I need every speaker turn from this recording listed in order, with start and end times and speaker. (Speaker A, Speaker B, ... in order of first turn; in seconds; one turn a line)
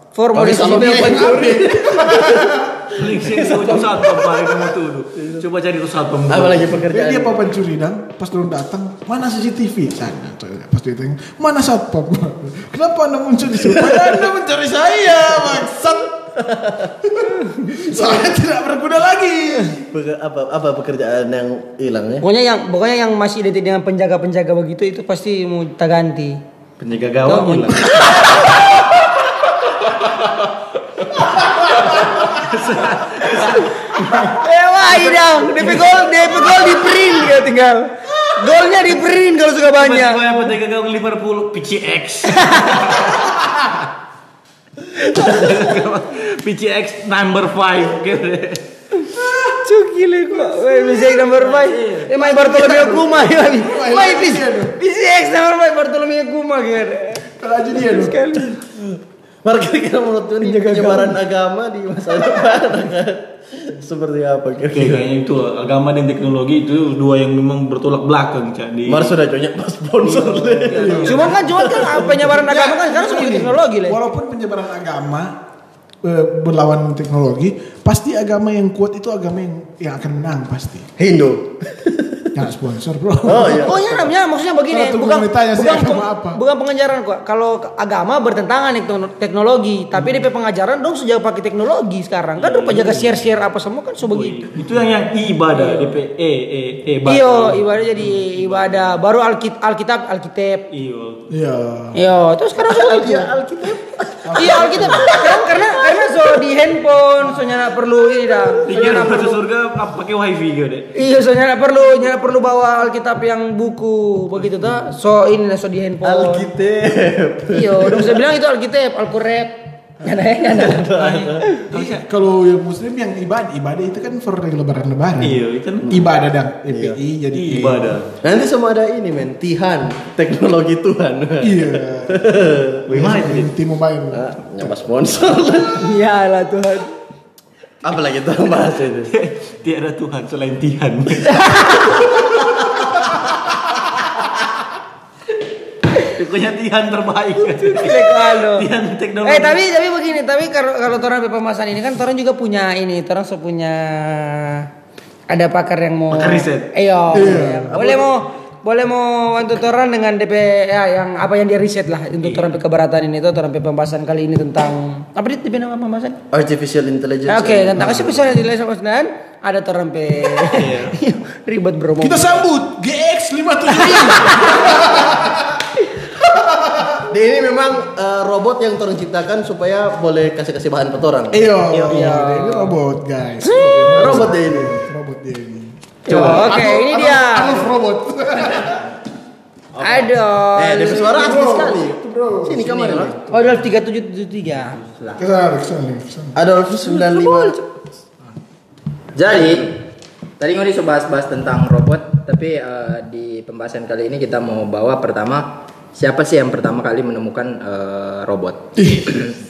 Speaker A: 0.1-1.4
Speaker B: 0.3-5.4
Speaker C: 0.4-2.9
Speaker D: 2.9-6.8
Speaker B: 6.3-7.4
Speaker C: 6.9-16.4
Speaker B: 13.6-14.2
Speaker B: 16.4-16.9
Speaker C: 17.0-19.9
Speaker B: 17.9-18.2
Speaker B: 19.9-22.2
Speaker A: 22.2-26.4
Speaker D: 26.8-28.3
Speaker A: 27.2-28.6
Speaker D: 31.1-34.3
Speaker A: 33.5-40.4
Speaker D: 39.7-43.2
Speaker A: 42.3-43.0
Speaker C: 43.2-43.9
Speaker D: 44.9-48.6
Speaker A: 49.0-58.6
Speaker D: 51.0-52.1
Speaker C: 52.1-54.8
Speaker C: 57.4-58.2
Speaker B: 59.4-65.0
Speaker A: 60.4-61.1
Speaker D: 64.6-69.2
Speaker B: 68.8-72.1
Speaker A: 70.0-74.0
Speaker C: 70.7-75.3
Speaker C: 76.0-80.9
Speaker B: 81.0-82.3
Speaker C: 82.3-83.8
Speaker B: 83.2-84.0
Speaker A: 83.5-94.5
Speaker C: 84.7-86.4
Speaker D: 92.4-93.1
Speaker D: 94.1-98.9
Speaker A: 95.6-95.9
Speaker A: 97.0-100.7
Speaker D: 100.7-101.3
Speaker C: 101.3-102.0
Speaker A: 101.9-103.3
Speaker B: 102.6-106.3
Speaker C: 104.2-105.2
Speaker A: 104.4-109.4
Speaker D: 108.7-110.9
Speaker A: 110.9-116.5
Speaker B: 116.0-118.2
Speaker A: 117.5-121.7
Speaker B: 120.4-121.4
Speaker D: 121.0-122.0
Speaker C: 121.9-127.9
Speaker D: 125.2-126.0
Speaker B: 126.7-127.0
Speaker D: 127.3-128.2
Speaker B: 127.5-132.8
Speaker C: 131.4-134.7
Speaker D: 132.9-133.5
Speaker B: 134.1-135.8
Speaker A: 135.8-136.9
Speaker B: 137.8-139.1
Speaker D: 139.1-141.9
Speaker A: 141.3-142.0
Speaker D: 146.0-149.6
Speaker A: 147.4-148.7
Speaker A: 149.2-154.7
Speaker A: 155.3-166.2
Speaker D: 156.1-156.7
Speaker C: 157.1-157.8
Speaker B: 157.7-158.0
Speaker D: 162.2-162.5
Speaker B: 166.3-168.3
Speaker A: 167.3-172.4
Speaker D: 170.4-170.9
Speaker C: 172.0-177.1
Speaker A: 173.7-174.8
Speaker B: 177.1-182.2
Speaker C: 181.3-188.9
Speaker A: 181.9-182.7
Speaker A: 183.4-184.2
Speaker B: 183.9-184.8
Speaker A: 186.1-187.6
Speaker B: 186.1-186.5
Speaker B: 189.8-193.2
Speaker A: 189.8-191.6
Speaker C: 190.9-193.6
Speaker A: 193.3-194.8
Speaker C: 195.2-196.4
Speaker B: 196.3-197.6
Speaker A: 196.9-197.6
Speaker E: 199.1-199.8
Speaker E: 200.4-209.3
Speaker C: 208.8-209.3